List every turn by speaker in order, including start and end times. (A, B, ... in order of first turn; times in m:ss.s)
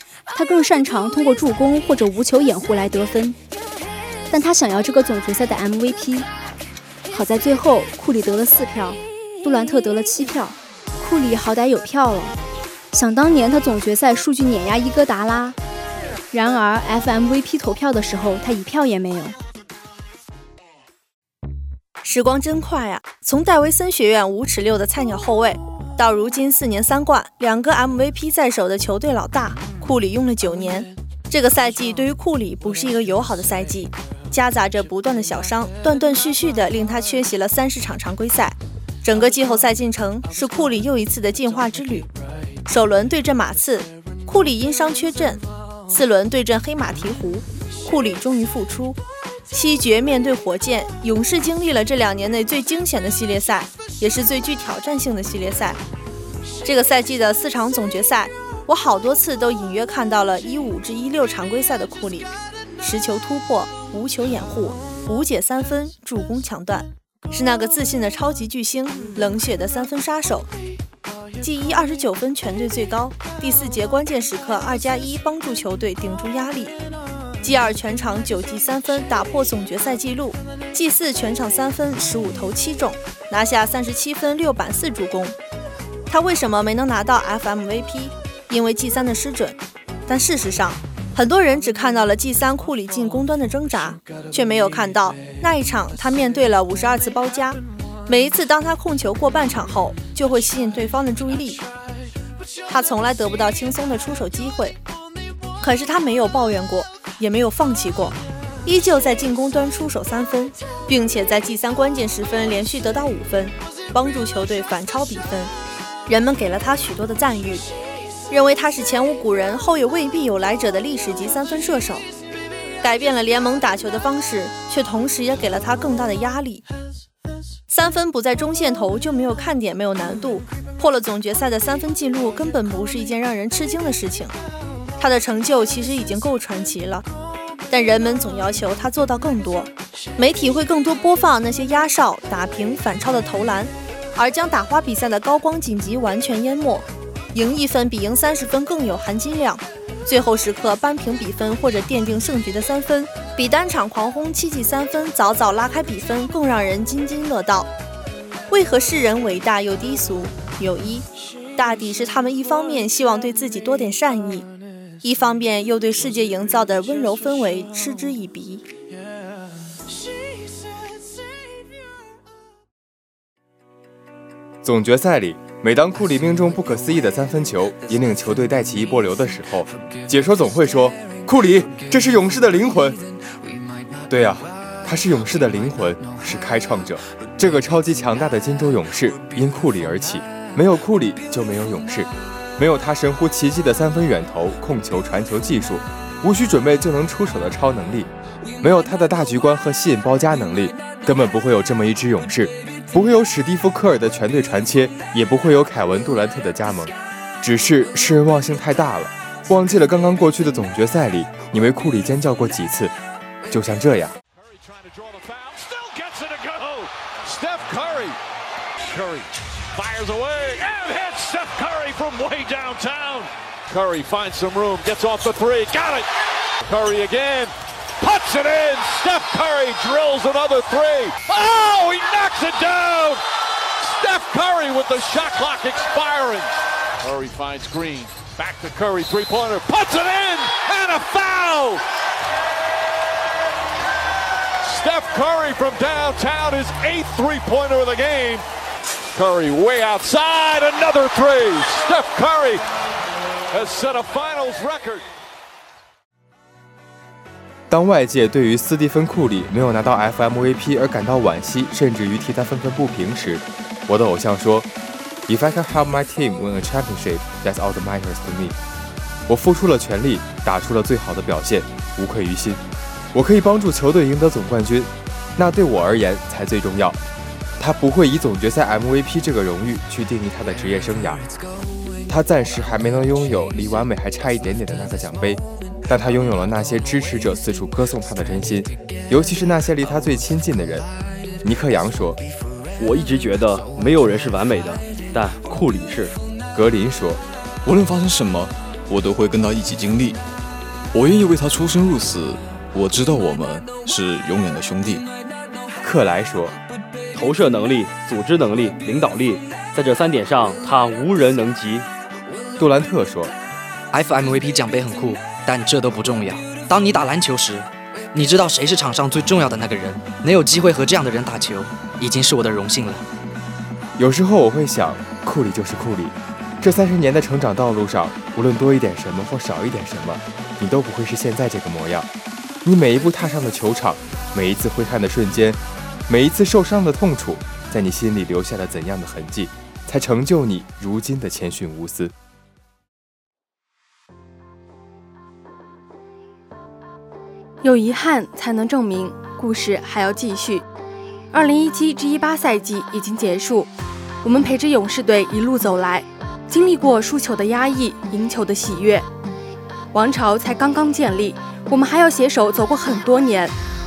0:00.3-0:03.4 A
0:04.3-0:06.3 A
0:07.1-0:12.4 A
0:12.9-0:15.6 A
0:16.3-0:19.3 A
0:22.0-0:42.1 B
0:42.6-0:49.0 B
0:49.5-0:55.8 B
0:56.6-1:10.5 B
1:11.4-1:16.7 B
1:17.4-1:25.4 B
1:26.1-1:29.6 B
1:30.1-1:41.6 B
1:42.7-1:44.8 B
1:45.6-1:55.5 B
1:56.1-1:57.7 B
1:58.3-2:02.1 B
2:02.8-2:06.6 B
2:07.7-2:14.3 B
2:15.0-2:17.0 B
2:17.7-2:37.7 B
2:38.5-2:44.5 B
2:45.0-2:48.6 B
2:54.6-3:03.0 C
3:04.1-3:32.9 C
3:33.5-3:34.1 C
3:34.3-3:38.2 D
3:38.8-3:46.1 D
3:46.6-3:53.2 D
3:53.8-4:01.8 D
4:04.6-4:08.4 D
4:09.1-4:12.6 D
4:13.5-4:15.0 D
4:17.7-4:24.7 C
4:25.3-4:28.6 C
4:29.3-4:32.6 C
4:33.1-4:37.0 C
4:37.6-4:41.2 C
4:42.1-4:50.9 C
4:51.4-4:52.2 C
4:52.8-4:56.2 E
4:56.5-4:57.2 C
4:57.6-5:00.2 F
5:00.9-5:05.1 F
5:05.8-5:06.6 C
5:07.1-5:11.9 E
5:12.6-5:13.3 C
5:13.9-5:23.0 G
5:24.0-5:32.1 C
5:32.6-5:42.1 C
5:47.6-5:50.6 H
5:51.3-5:53.7 H
5:54.2-5:59.0 H
5:59.9-6:03.5 H